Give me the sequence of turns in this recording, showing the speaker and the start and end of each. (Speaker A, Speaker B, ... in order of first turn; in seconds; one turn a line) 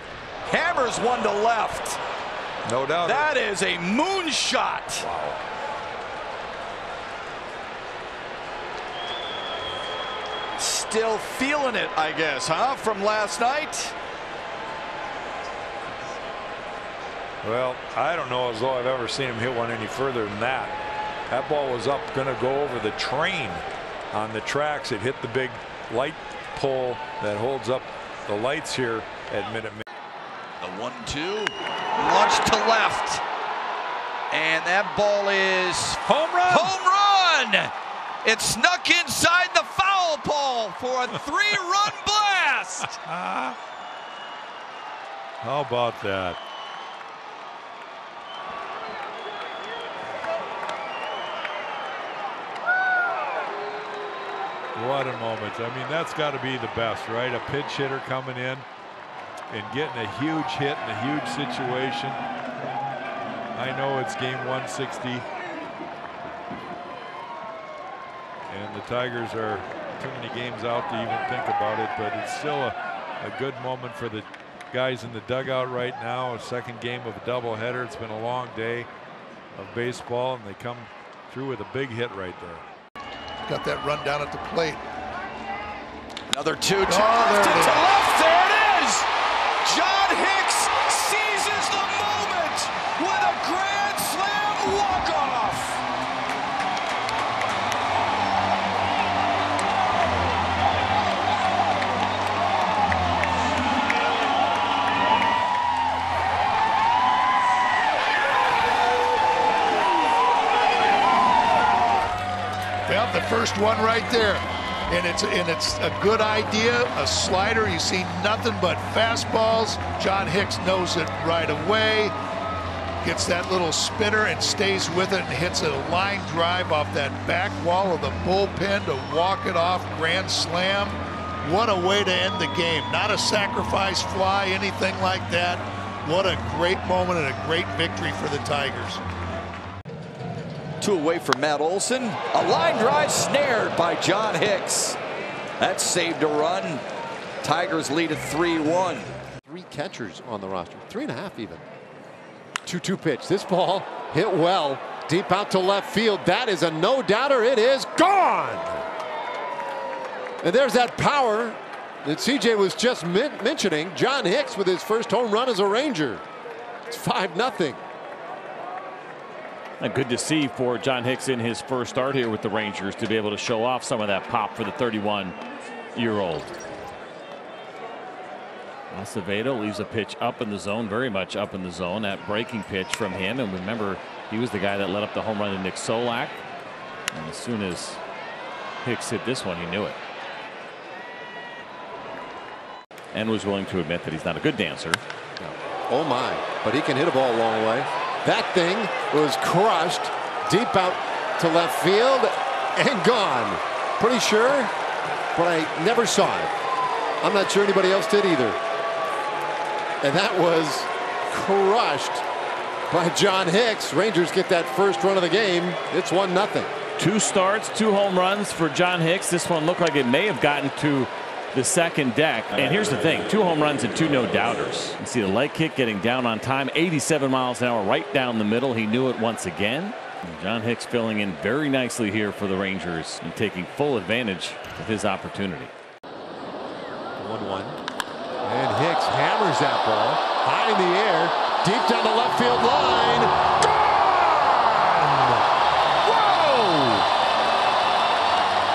Speaker A: 0.4-2.0
Speaker B: 2.6-3.3
Speaker A: 3.0-5.1
Speaker B: 5.0-5.4
Speaker A: 10.6-13.9
Speaker B: 17.4-20.8
Speaker B: 21.3-29.8
Speaker A: 30.6-33.2
Speaker A: 34.3-37.7
Speaker B: 36.0-36.7
Speaker A: 38.2-42.9
Speaker B: 43.0-43.5
Speaker B: 45.4-46.4
Speaker B: 54.7-58.6
Speaker B: 59.5-62.2
Speaker B: 63.5-65.2
Speaker B: 68.5-78.9
Speaker B: 79.5-82.7
Speaker C: 83.4-84.8
Speaker A: 86.3-89.1
Speaker C: 86.8-87.9
Speaker A: 89.6-95.8
Speaker C: 112.9-122.1
Speaker C: 123.0-139.0
Speaker A: 140.8-145.0
Speaker A: 145.6-146.8
Speaker A: 147.4-149.1
Speaker D: 149.4-151.6
Speaker D: 152.6-158.9
Speaker D: 160.4-166.2
Speaker D: 166.9-167.8
Speaker E: 169.8-175.4
Speaker E: 175.9-176.5
Speaker E: 178.9-186.4
Speaker E: 187.1-188.0
Speaker E: 188.8-190.0
Speaker E: 193.1-195.0
Speaker D: 195.4-204.7
Speaker D: 205.3-206.5
Speaker D: 207.2-208.6
Speaker D: 210.0-212.2
Speaker D: 212.9-216.7
Speaker E: 217.0-235.7
Speaker D: 237.2-237.8
Speaker D: 238.4-245.4
Speaker D: 246.1-247.1